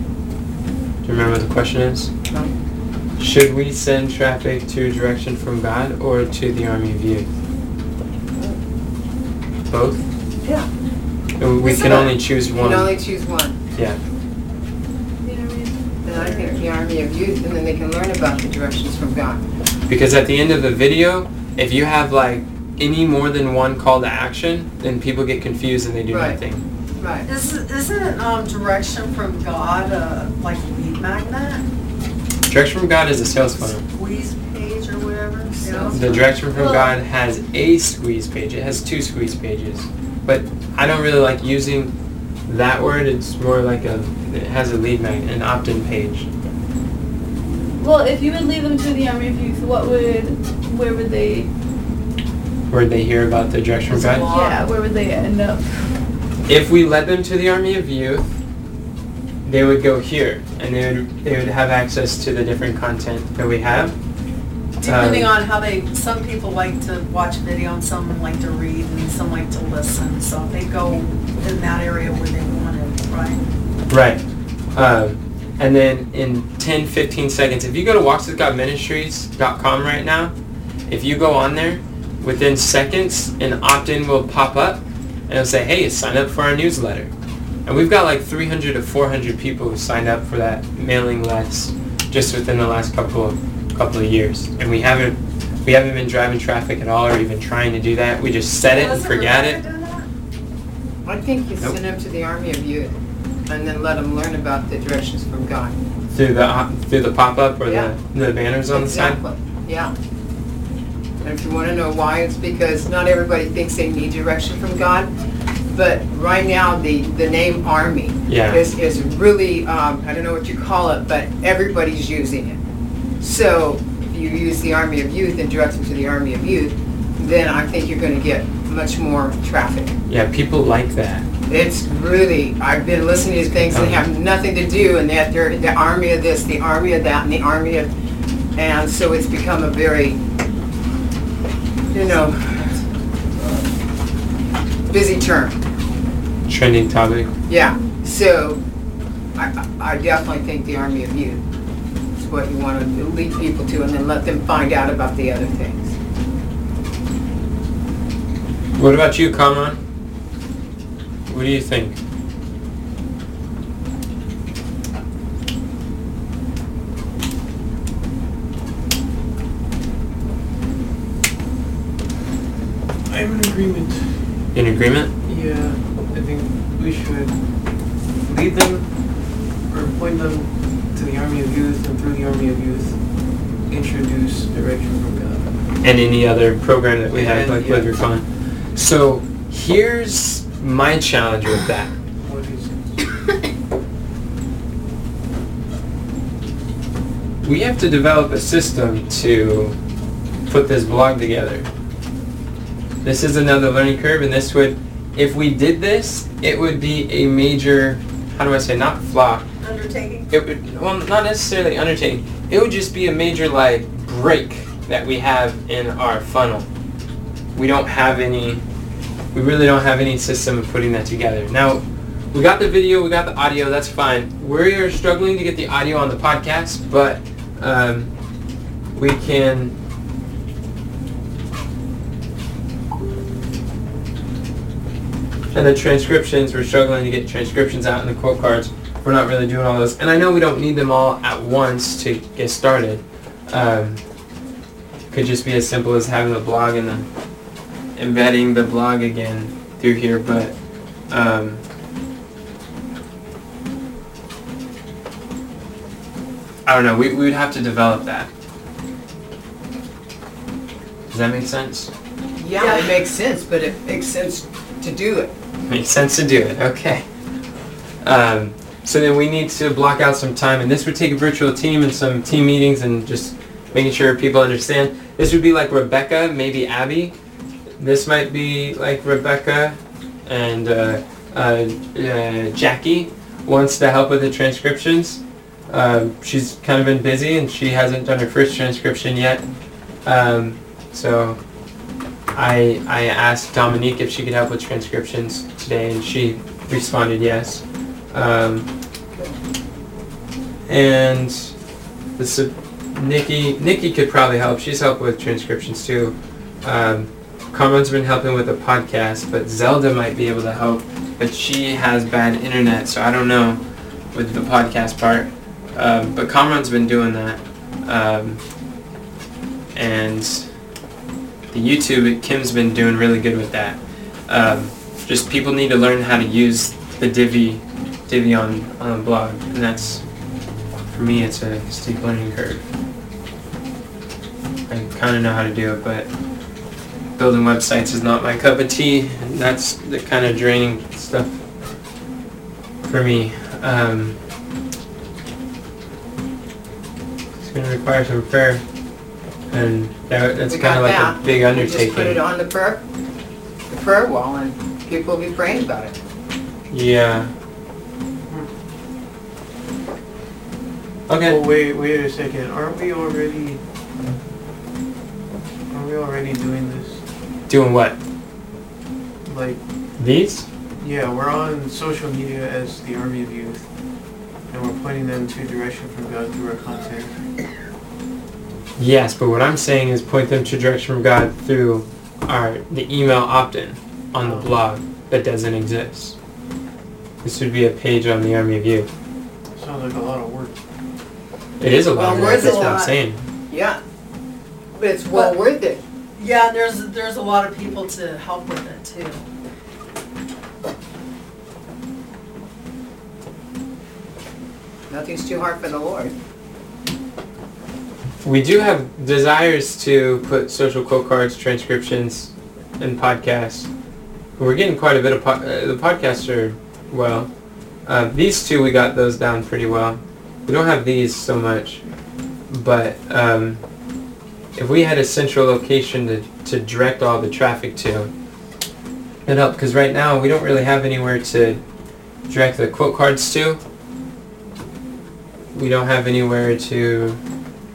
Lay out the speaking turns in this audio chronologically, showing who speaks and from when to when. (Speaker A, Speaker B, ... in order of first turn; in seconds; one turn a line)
Speaker A: 1.0-2.1
Speaker A: 3.2-7.3
Speaker A: 9.7-10.0
Speaker A: 11.4-12.9
Speaker B: 11.6-13.6
Speaker C: 15.2-16.6
Speaker B: 16.0-19.4
Speaker A: 19.9-26.6
Speaker B: 26.1-26.4
Speaker B: 27.0-27.2
Speaker D: 27.2-31.6
Speaker A: 32.5-33.8
Speaker D: 33.8-36.0
Speaker B: 35.6-36.2
Speaker A: 35.9-41.9
Speaker C: 36.5-36.9
Speaker A: 42.5-46.3
Speaker C: 47.8-51.5
Speaker A: 52.7-54.3
Speaker D: 53.9-54.6
Speaker C: 54.2-56.0
Speaker A: 56.5-58.4
Speaker A: 59.4-63.9
Speaker D: 64.8-73.4
Speaker A: 64.8-65.3
Speaker A: 73.9-74.2
Speaker A: 74.7-80.3
Speaker A: 80.9-87.1
Speaker A: 87.7-99.6
Speaker D: 98.7-100.1
Speaker B: 101.0-105.8
Speaker A: 106.1-109.2
Speaker B: 107.7-107.9
Speaker B: 108.7-109.9
Speaker B: 111.2-115.1
Speaker B: 115.7-122.6
Speaker A: 118.3-118.6
Speaker B: 123.2-130.0
Speaker A: 130.1-131.3
Speaker B: 131.5-137.9
Speaker A: 133.7-134.1
Speaker B: 138.5-140.2
Speaker B: 141.9-142.7
Speaker D: 141.9-142.9
Speaker B: 143.4-143.7
Speaker B: 144.9-145.6
Speaker A: 146.4-147.3
Speaker B: 147.5-148.6
Speaker B: 149.3-151.4
Speaker B: 152.2-155.9
Speaker A: 158.8-159.8
Speaker A: 161.3-162.0
Speaker E: 173.1-174.5
Speaker A: 174.5-175.1
Speaker E: 175.2-185.7
Speaker A: 185.8-191.9
Speaker E: 187.1-187.9
Speaker E: 192.2-192.9
Speaker A: 197.4-199.8
Speaker A: 200.4-201.7
Speaker A: 203.0-209.4
Speaker D: 209.6-210.3
Speaker A: 210.3-216.7
Speaker A: 217.5-218.6
Speaker A: 219.3-228.1
Speaker A: 228.9-229.7
Speaker A: 235.5-244.0
Speaker A: 245.1-247.1
Speaker A: 247.9-250.6
Speaker A: 251.1-251.6
Speaker A: 256.6-258.3
Speaker A: 261.1-261.9
Speaker B: 262.4-265.3
Speaker D: 262.6-263.0
Speaker A: 265.7-267.0
Speaker A: 268.0-277.1
Speaker A: 277.8-289.4
Speaker A: 290.0-291.4
Speaker A: 292.3-298.7
Speaker A: 300.7-301.5
Speaker A: 302.2-318.4
Speaker A: 319.7-320.5
Speaker A: 321.5-330.0
Speaker A: 330.9-332.6
Speaker A: 334.7-336.1
Speaker A: 337.2-341.4
Speaker A: 342.8-344.2
Speaker A: 347.4-348.6
Speaker A: 349.5-352.2
Speaker B: 350.5-352.8
Speaker B: 353.7-356.0
Speaker A: 356.7-357.3
Speaker A: 361.1-361.4
Speaker E: 361.2-363.6
Speaker E: 365.7-367.0
Speaker A: 367.5-367.9
Speaker E: 369.2-369.6
Speaker A: 370.0-370.5
Speaker E: 370.8-373.7
Speaker E: 374.5-377.2
Speaker A: 378.8-386.1
Speaker E: 384.2-384.5
Speaker A: 387.2-388.9
Speaker E: 389.5-390.6
Speaker A: 391.6-393.2
Speaker B: 391.7-392.9
Speaker D: 392.0-392.9
Speaker B: 393.5-393.8
Speaker B: 394.7-395.8
Speaker D: 396.2-399.2
Speaker B: 404.9-406.1
Speaker A: 408.2-413.7
Speaker A: 414.4-417.3
Speaker A: 417.8-421.8
Speaker A: 422.5-423.6
Speaker A: 424.5-428.1
Speaker A: 429.2-431.6
Speaker A: 432.3-433.6
Speaker A: 435.5-437.2